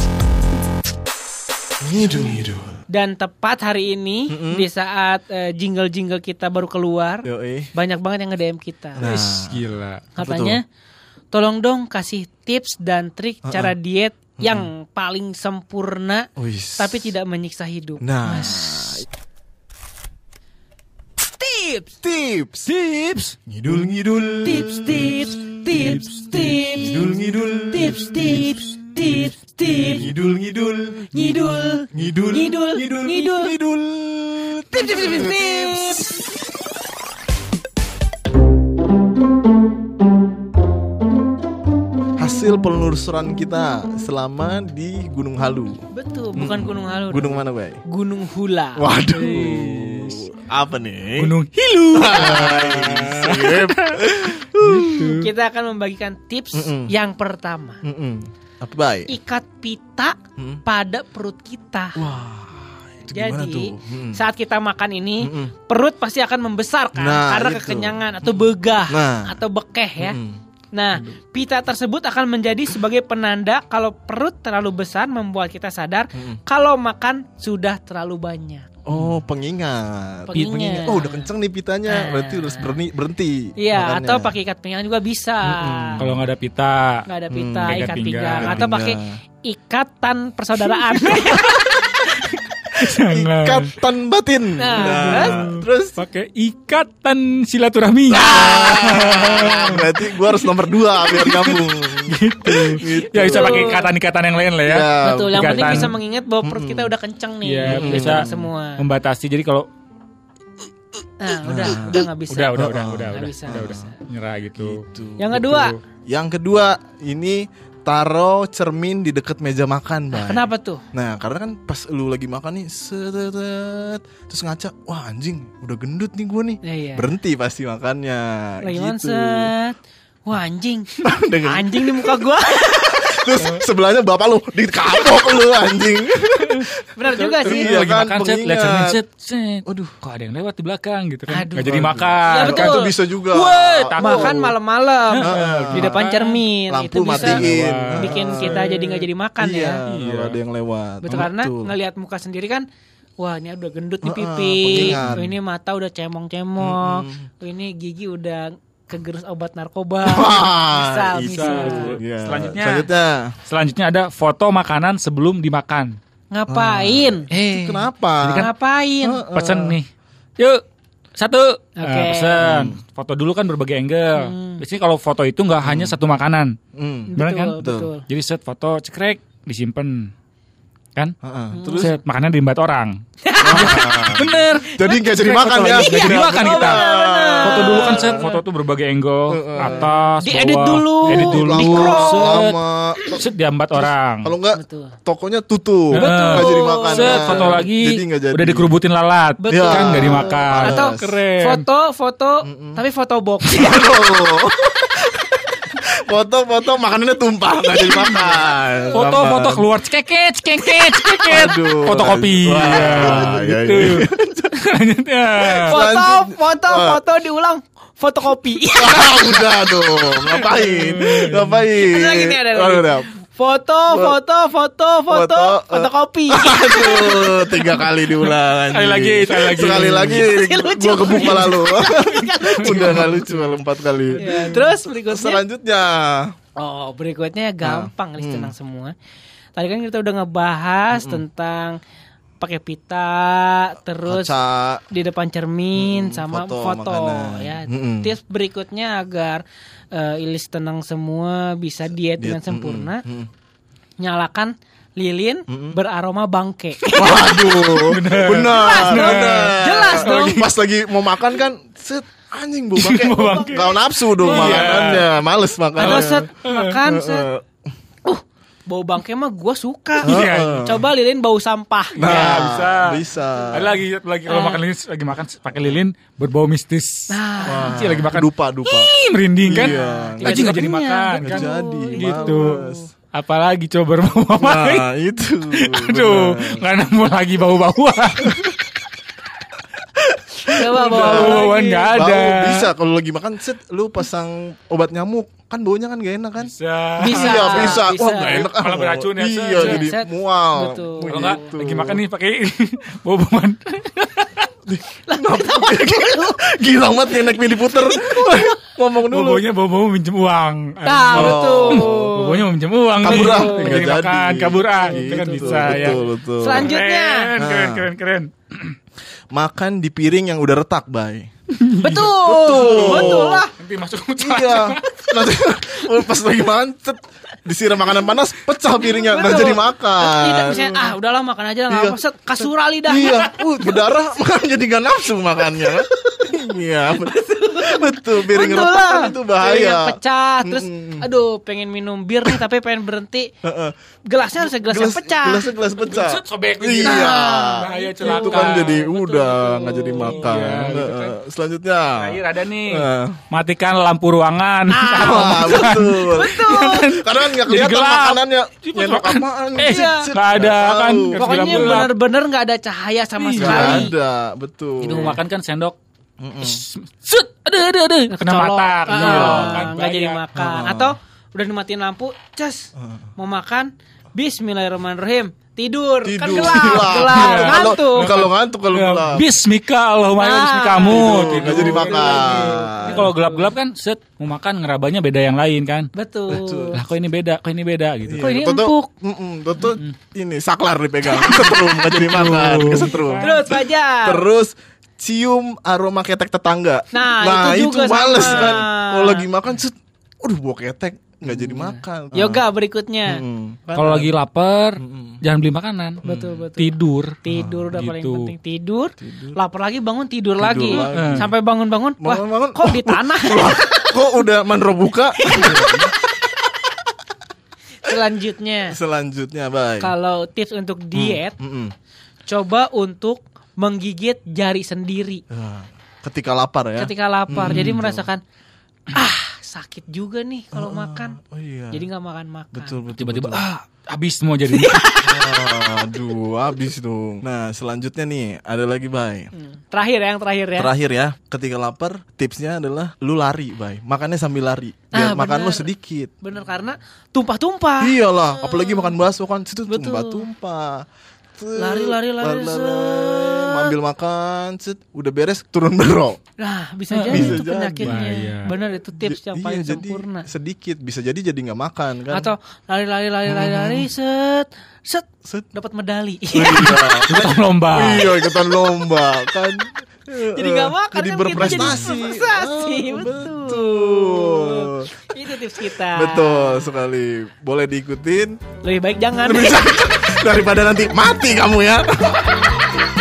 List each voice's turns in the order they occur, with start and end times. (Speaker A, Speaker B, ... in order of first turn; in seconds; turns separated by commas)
Speaker A: 1.8-2.8, Speaker B: 2.9-9.0, Speaker A: 4.3-4.7, Speaker A: 7.2-7.7, Speaker A: 8.9-9.6, Speaker C: 9.0-10.1, Speaker B: 10.2-10.6, Speaker A: 10.2-10.6, Speaker B: 11.3-19.0, Speaker A: 13.4-13.7, Speaker A: 14.4-14.7, Speaker A: 16.4-17.1, Speaker A: 18.0-19.1, Speaker B: 21.4-21.9, Speaker A: 22.0-22.7, Speaker C: 22.7-23.3, Speaker A: 23.4-28.6, Speaker B: 24.4-27.1, Speaker C: 25.6-26.7, Speaker B: 27.7-30.1, Speaker A: 29.7-31.2, Speaker B: 31.1-33.5, Speaker A: 31.9-36.0, Speaker B: 34.7-36.2, Speaker A: 42.2-45.8, Speaker B: 45.9-48.9, Speaker A: 46.3-47.8, Speaker A: 48.8-51.3, Speaker C: 49.1-50.3, Speaker C: 51.2-55.3, Speaker A: 51.9-55.2, Speaker B: 55.0-57.8, Speaker A: 56.5-56.9, Speaker A: 57.8-59.1, Speaker B: 59.1-62.0, Speaker A: 60.4-60.6, Speaker A: 62.0-64.2, Speaker B: 63.1-70.2, Speaker A: 65.2-65.5, Speaker A: 66.9-69.4, Speaker A: 70.0-70.4, Speaker B: 70.7-78.7, Speaker A: 78.8-84.3, Speaker B: 80.3-81.3, Speaker B: 81.8-82.8, Speaker B: 83.6-86.0, Speaker A: 85.4-86.2, Speaker C: 86.0-87.0, Speaker B: 87.1-91.7, Speaker A: 87.3-89.2, Speaker C: 87.6-88.6, Speaker C: 91.1-91.6, Speaker C: 92.7-93.7, Speaker A: 93.0-96.0, Speaker B: 94.6-95.4, Speaker C: 94.8-105.9, Speaker A: 98.1-103.8, Speaker B: 102.8-103.9, Speaker A: 104.6-106.9, Speaker B: 105.0-108.8, Speaker C: 107.4-108.2, Speaker A: 107.7-108.5, Speaker C: 108.8-109.7, Speaker B: 111.2-113.9, Speaker A: 111.4-113.9, Speaker C: 111.7-115.8, Speaker A: 114.5-115.5, Speaker B: 115.2-115.7, Speaker A: 116.0-129.5, Speaker B: 120.1-120.8, Speaker B: 126.6-127.1, Speaker B: 128.6-133.3, Speaker A: 131.0-139.0, Speaker B: 136.9-137.8, Speaker C: 137.4-144.5, Speaker A: 139.6-140.0, Speaker B: 141.3-142.9, Speaker A: 141.6-144.5, Speaker B: 144.0-147.4, Speaker C: 145.1-146.4, Speaker A: 145.2-146.1, Speaker A: 146.7-148.7, Speaker C: 147.1-149.0, Speaker B: 148.0-149.8, Speaker A: 149.4-151.7, Speaker C: 149.9-150.4, Speaker B: 151.0-152.6, Speaker B: 153.2-161.9, Speaker A: 154.0-155.3, Speaker C: 154.7-155.3, Speaker A: 156.6-157.2, Speaker A: 160.0-163.3, Speaker C: 161.2-162.9, Speaker C: 163.4-165.9, Speaker B: 166.3-167.3, Speaker A: 166.5-168.5, Speaker C: 167.3-168.5, Speaker B: 168.3-169.2, Speaker A: 169.0-169.8, Speaker C: 169.3-170.6, Speaker C: 171.2-176.5, Speaker B: 171.8-172.5, Speaker A: 172.4-172.8, Speaker B: 174.2-174.6, Speaker A: 175.6-176.0, Speaker A: 176.7-177.9, Speaker B: 177.1-178.0, Speaker C: 177.2-180.1, Speaker A: 181.2-181.9, Speaker B: 181.5-181.9, Speaker C: 181.7-186.8, Speaker B: 183.2-185.0, Speaker A: 183.4-188.3, Speaker B: 185.7-188.4, Speaker C: 187.4-194.3, Speaker A: 189.3-189.9, Speaker B: 189.6-192.4, Speaker A: 191.1-193.2, Speaker A: 193.8-198.7, Speaker B: 194.5-195.0, Speaker C: 195.9-201.6, Speaker B: 196.0-197.6, Speaker B: 199.4-203.9, Speaker A: 199.5-201.2, Speaker A: 202.4-202.8, Speaker A: 203.5-209.7, Speaker C: 207.9-208.3, Speaker C: 208.9-215.7, Speaker A: 211.2-214.5, Speaker A: 215.5-217.0, Speaker B: 215.6-219.5, Speaker A: 218.8-223.1, Speaker C: 220.3-221.6, Speaker B: 221.8-227.6, Speaker A: 223.9-224.2, Speaker A: 225.1-236.3, Speaker C: 227.6-230.3, Speaker B: 230.1-233.2, Speaker C: 232.3-233.5, Speaker C: 234.1-234.7, Speaker B: 234.2-235.4, Speaker B: 236.6-238.9, Speaker A: 237.6-238.5, Speaker B: 239.5-241.8, Speaker A: 240.9-241.2, Speaker B: 242.4-244.4, Speaker A: 244.1-244.8, Speaker B: 244.9-253.0, Speaker A: 245.8-248.1, Speaker A: 252.2-253.3, Speaker B: 254.0-256.8, Speaker A: 255.5-255.8, Speaker C: 256.8-260.4, Speaker A: 256.9-266.3, Speaker B: 258.4-260.5, Speaker C: 262.8-265.1, Speaker B: 263.0-264.8, Speaker B: 265.8-267.3, Speaker C: 265.8-266.8, Speaker A: 266.8-267.4, Speaker B: 268.0-272.5, Speaker C: 270.0-270.7, Speaker A: 270.0-270.9, Speaker C: 271.9-273.0, Speaker A: 272.0-273.8, Speaker C: 273.5-282.6, Speaker B: 274.2-274.6, Speaker B: 277.1-278.0, Speaker A: 277.4-278.9, Speaker A: 279.4-280.6, Speaker B: 279.5-282.9, Speaker A: 281.2-282.8, Speaker C: 283.1-284.9, Speaker A: 284.3-286.6, Speaker C: 285.5-288.4, Speaker A: 290.0-302.0, Speaker B: 290.5-291.9, Speaker C: 290.9-292.7, Speaker C: 296.4-299.9, Speaker B: 297.0-298.5, Speaker B: 299.5-301.5, Speaker C: 301.1-304.5, Speaker A: 304.7-309.4, Speaker B: 305.1-306.5, Speaker B: 307.1-308.5, Speaker C: 309.1-318.8, Speaker B: 310.8-312.4, Speaker A: 311.1-312.1, Speaker A: 313.0-316.7, Speaker B: 313.0-313.8, Speaker B: 314.9-317.3, Speaker A: 317.4-317.9, Speaker A: 319.3-321.3, Speaker C: 321.6-325.3, Speaker B: 321.8-323.5, Speaker A: 322.2-323.5, Speaker A: 324.2-330.9, Speaker B: 328.9-333.3, Speaker A: 331.7-341.0, Speaker B: 336.9-343.3, Speaker A: 343.4-343.7, Speaker B: 344.1-345.5, Speaker A: 344.4-353.2, Speaker C: 345.8-349.4, Speaker B: 346.8-350.4, Speaker C: 350.0-351.2, Speaker C: 351.9-361.9, Speaker B: 354.7-357.0, Speaker A: 354.9-361.9, Speaker B: 359.6-360.1, Speaker B: 361.1-363.9, Speaker C: 363.2-363.9, Speaker A: 363.4-365.2, Speaker C: 364.8-365.8, Speaker A: 366.2-366.6, Speaker C: 366.4-370.2, Speaker B: 368.1-378.1, Speaker A: 368.9-369.7, Speaker A: 370.3-370.9, Speaker A: 372.8-373.0, Speaker A: 376.0-379.3, Speaker C: 376.3-388.3, Speaker B: 380.1-383.5, Speaker A: 380.9-383.1, Speaker B: 385.9-386.8, Speaker A: 386.3-386.8, Speaker A: 388.1-402.4, Speaker B: 388.2-388.9, Speaker B: 391.1-391.5, Speaker C: 391.2-393.4, Speaker B: 393.2-394.2, Speaker B: 396.9-399.3, Speaker C: 398.2-398.6, Speaker B: 401.2-404.1, Speaker A: 403.1-404.1, Speaker C: 403.7-406.0, Speaker A: 404.8-405.2, Speaker A: 406.0-406.4, Speaker B: 406.0-414.0, Speaker C: 406.6-407.2, Speaker A: 407.3-407.8, Speaker C: 407.7-408.3, Speaker A: 409.0-409.4, Speaker A: 410.4-411.3, Speaker C: 410.8-411.2, Speaker A: 412.0-415.9, Speaker B: 415.2-415.9, Speaker B: 417.8-418.8, Speaker A: 418.7-419.9, Speaker B: 419.8-421.4, Speaker A: 420.9-421.7, Speaker B: 422.2-425.2, Speaker A: 425.3-428.1, Speaker B: 426.8-428.2, Speaker C: 427.3-427.8, Speaker B: 428.9-431.2, Speaker A: 430.5-431.8, Speaker B: 431.7-432.8, Speaker A: 432.5-433.5, Speaker C: 432.9-435.2, Speaker B: 434.5-435.4, Speaker A: 435.0-439.3, Speaker B: 439.3-440.7, Speaker A: 440.6-446.1, Speaker B: 444.9-448.9, Speaker A: 447.8-450.9, Speaker B: 449.7-450.3, Speaker A: 451.4-456.2, Speaker B: 451.6-453.7, Speaker B: 456.4-460.3, Speaker C: 456.9-458.5, Speaker A: 457.1-458.0, Speaker A: 459.0-462.3, Speaker B: 462.1-467.1, Speaker A: 463.2-463.9, Speaker A: 466.3-474.9, Speaker C: 466.7-468.1, Speaker B: 470.3-476.7, Speaker C: 471.4-471.8, Speaker A: 475.6-478.4, Speaker B: 478.6-479.6, Speaker A: 479.2-482.4